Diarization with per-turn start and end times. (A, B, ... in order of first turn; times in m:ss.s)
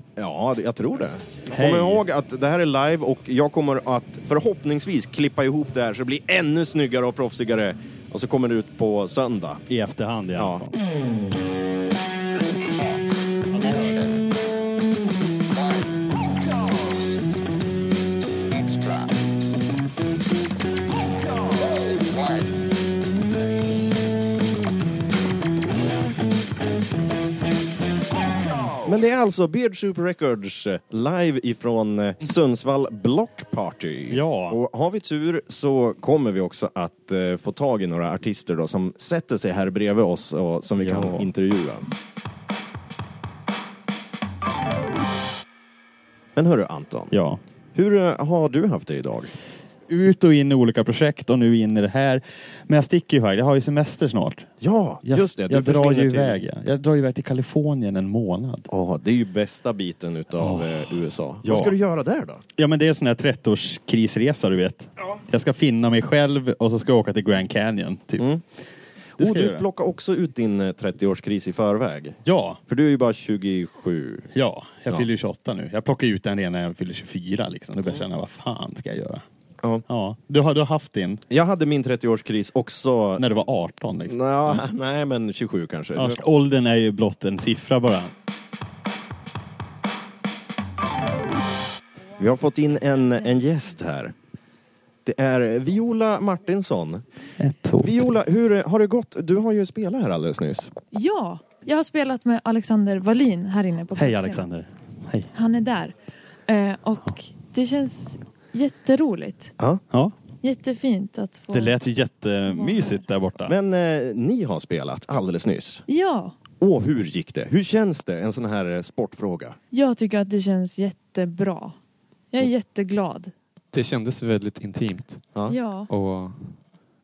0:00.2-0:09.6 A
0:01.5-0:02.0 B
0:09.7-0:10.7 B
0:10.4-0:10.7 A
0:13.5-0:14.0 B
0:28.8-0:41.9 A
0:34.1-0:34.6 B
0:40.8-0:41.3 B
0:46.4-0:47.1 A
0:47.1-0:47.4 B
0:47.7-0:49.3 A
0:49.9-0:54.5 B
0:54.6-0:56.4 A
0:55.0-0:58.7 B
0:58.7-1:02.4 A
1:00.4-1:00.8 B
1:01.4-1:01.7 B
1:02.6-1:08.3 B
1:09.2-1:14.3 A
1:09.2-1:09.6 B
1:12.2-1:12.6 B
1:14.3-1:19.2 B
1:19.9-1:21.2 B
1:21.3-1:23.2 A
1:23.2-1:24.6 B
1:24.0-1:26.2 A
1:26.0-1:28.1 B
1:32.2-1:34.1 A
1:35.0-1:37.0 A
1:37.4-1:37.9 C
1:37.8-1:40.7 A
1:40.9-1:44.4 D
1:44.0-1:45.3 B
1:45.3-1:45.9 D
1:46.5-1:49.5 D
1:50.4-1:51.7 D
1:51.5-1:53.5 B
1:52.5-1:53.0 D
1:53.4-1:55.8 A
1:55.9-1:56.3 D
1:56.6-1:59.6 A
1:59.7-2:01.8 D
2:02.3-2:03.3 D
2:03.7-2:05.3 C
2:05.5-2:05.9 D
2:05.9-2:06.6 C